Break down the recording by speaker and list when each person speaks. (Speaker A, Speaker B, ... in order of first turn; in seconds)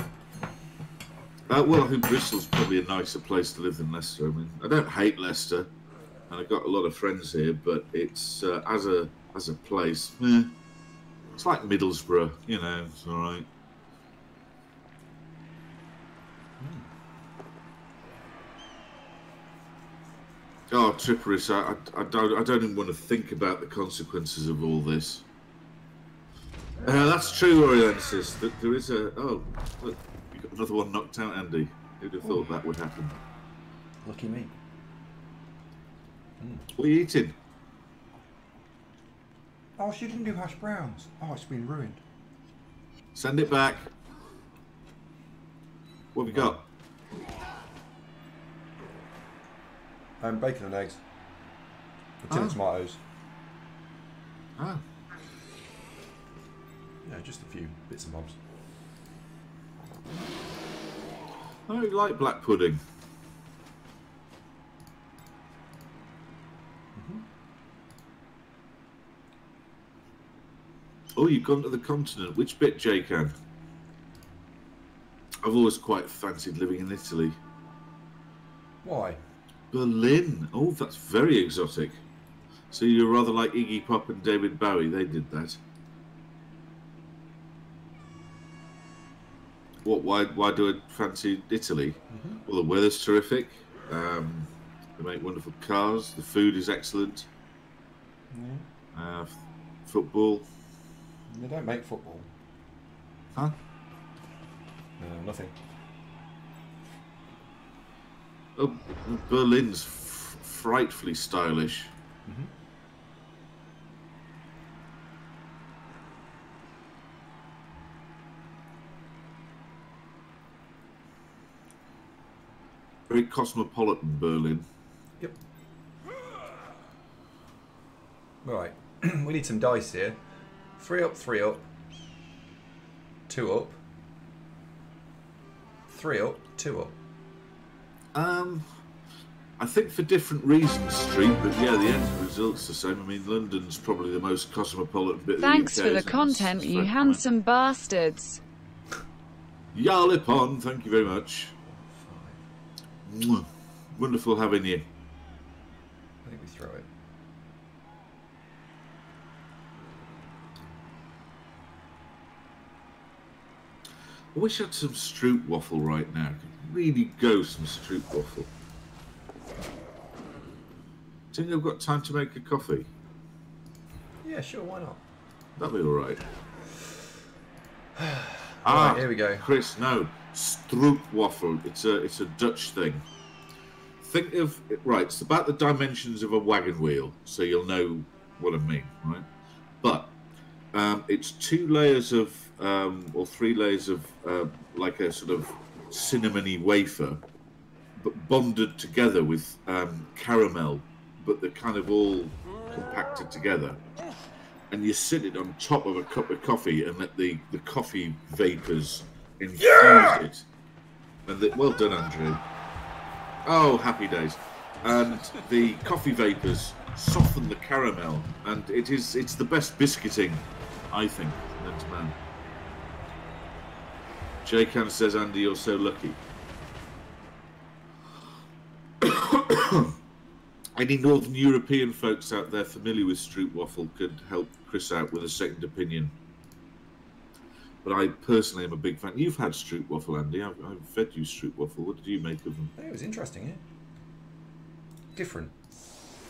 Speaker A: 1.5-5.7, 6.3-10.6, 11.4-13.5, 20.7-25.3, 26.8-33.2, 36.8-37.4, 43.1-43.9, 46.1-46.6, 52.3-52.6, 54.6-54.8, 61.7-62.8, 71.2-73.3, 75.4-77.4, 79.7-82.0, 82.7-85.6, 89.8-97.3, 98.9-100.5, 108.6-111.9, 123.1-124.7, 138.1-138.7, 139.6-147.2, 149.7-151.5, 153.1-154.9, 164.3-168.5, 171.3-172.9, 175.6-176.2, 178.7-183.1, 184.0-189.3, 189.8-190.2, 190.7-197.2, 198.0-203.8, 204.7-210.5, 211.3-212.4, 213.4-222.2, 224.4-226.2, 229.0-230.0, 230.8-236.1, 237.8-242.7
Speaker B: 16.6-16.9, 34.0-34.5, 36.4-36.7, 39.8-42.0, 46.3-46.6, 50.2-51.0, 52.2-53.0, 57.0-58.4, 67.0-67.3, 78.8-79.2, 92.1-92.4, 98.3-98.7, 101.3-102.3, 105.0-105.5, 112.3-112.5, 128.4-130.2, 130.8-131.7, 133.3-133.8, 135.9-137.0, 151.7-152.4, 156.2-156.9, 174.2-175.0, 178.0-179.5, 242.8-243.6, 245.2-245.6
Speaker C: 145.4-148.4